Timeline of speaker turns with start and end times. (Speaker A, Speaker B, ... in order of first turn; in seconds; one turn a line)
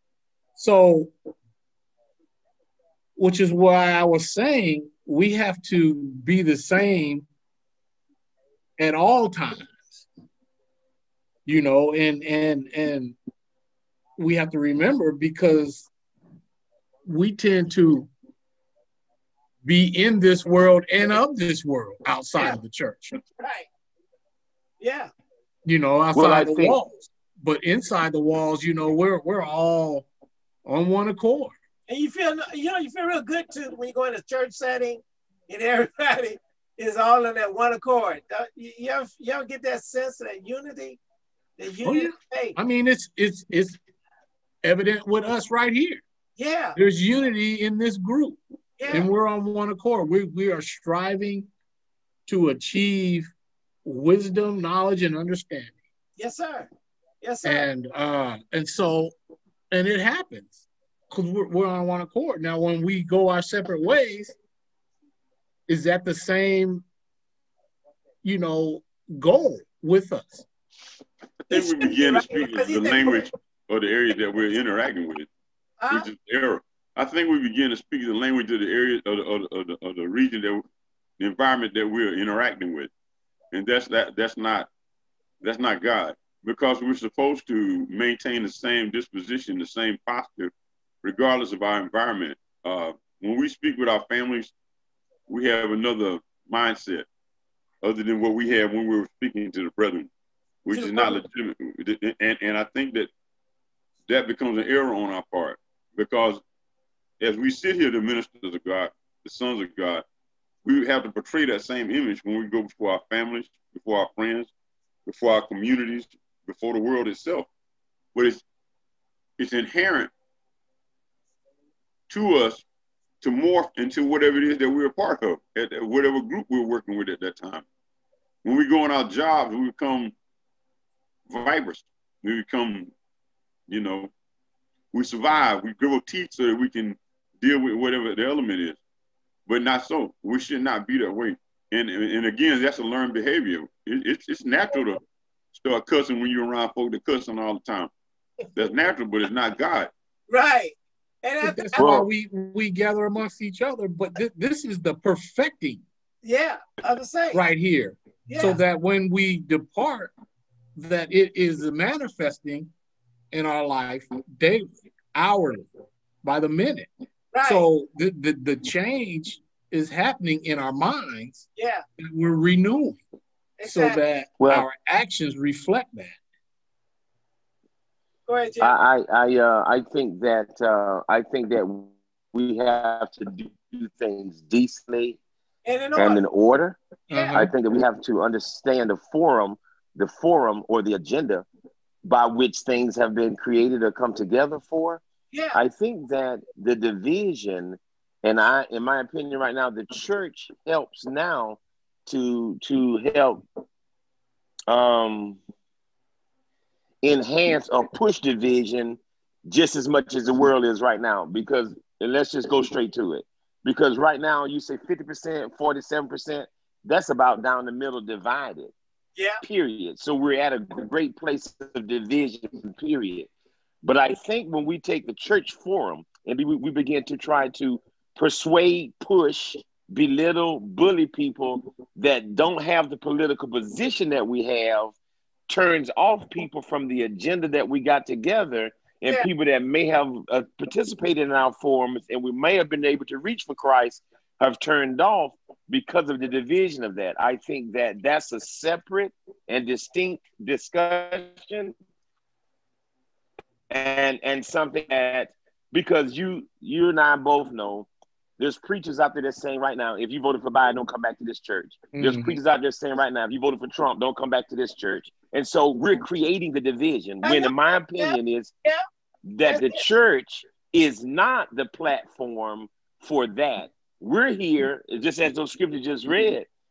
Speaker A: 0.6-1.1
Speaker A: 3.2-7.2
Speaker A: 8.8-10.1
Speaker A: 11.5-13.2
Speaker A: 14.2-15.9
Speaker A: 17.0-18.1
Speaker A: 19.6-23.1
Speaker B: 23.4-23.7
Speaker B: 24.8-25.1
Speaker A: 25.6-30.1
Speaker C: 26.1-26.8
Speaker A: 30.6-31.5
Speaker B: 31.9-41.0
Speaker B: 41.6-42.6
Speaker A: 41.8-43.8
Speaker A: 44.6-46.0
Speaker B: 46.4-46.8
Speaker A: 46.8-51.5
Speaker B: 48.8-49.1
Speaker A: 52.3-53.3
Speaker A: 53.9-55.8
Speaker B: 56.2-56.7
Speaker B: 57.2-57.7
Speaker A: 57.4-59.1
Speaker A: 59.7-60.6
Speaker A: 61.1-64.3
Speaker A: 65.7-66.8
Speaker A: 68.2-70.5
Speaker D: 71.4-75.3
Speaker B: 71.5-73.2
Speaker B: 75.8-76.1
Speaker D: 75.9-80.6
Speaker D: 81.2-82.9
Speaker D: 83.5-84.7
Speaker D: 85.4-90.5
Speaker D: 91.0-94.5
Speaker D: 95.3-97.0
Speaker D: 97.8-100.1
Speaker D: 100.6-103.1
Speaker B: 100.7-101.2
Speaker D: 104.1-106.4
Speaker D: 107.2-110.0
Speaker D: 110.6-114.5
Speaker D: 115.0-117.5
Speaker D: 118.1-118.4
Speaker D: 119.4-120.1
Speaker D: 122.1-122.6
Speaker D: 123.2-127.6
Speaker D: 128.4-130.1
Speaker D: 131.3-132.9
Speaker D: 133.7-134.1
Speaker D: 134.9-138.8
Speaker D: 139.5-145.0
Speaker D: 145.5-147.9
Speaker D: 148.5-149.9
Speaker B: 150.3-152.0
Speaker A: 151.4-155.8
Speaker C: 151.8-152.1
Speaker B: 156.2-157.4
Speaker A: 157.3-160.1
Speaker B: 158.3-158.6
Speaker A: 160.8-162.7
Speaker A: 163.3-165.7
Speaker A: 166.2-166.9
Speaker B: 167.3-167.7
Speaker A: 167.4-171.5
Speaker B: 171.6-171.8
Speaker A: 172.0-173.0
Speaker B: 173.6-174.0
Speaker A: 173.6-176.2
Speaker C: 174.4-174.7
Speaker B: 178.3-178.7
Speaker C: 178.6-185.2
Speaker B: 185.7-186.2
Speaker C: 186.0-186.8
Speaker B: 187.1-187.4
Speaker A: 187.1-187.5
Speaker C: 187.3-191.4
Speaker C: 192.0-195.0
Speaker B: 195.3-195.6
Speaker C: 195.5-203.4
Speaker C: 204.7-205.4
Speaker C: 207.0-218.7
Speaker C: 219.4-223.3
Speaker C: 223.8-235.0
Speaker C: 235.5-251.7
Speaker C: 253.7-268.5
Speaker A: 261.9-262.4
Speaker B: 267.2-268.8
Speaker C: 269.2-276.5
Speaker B: 269.4-269.8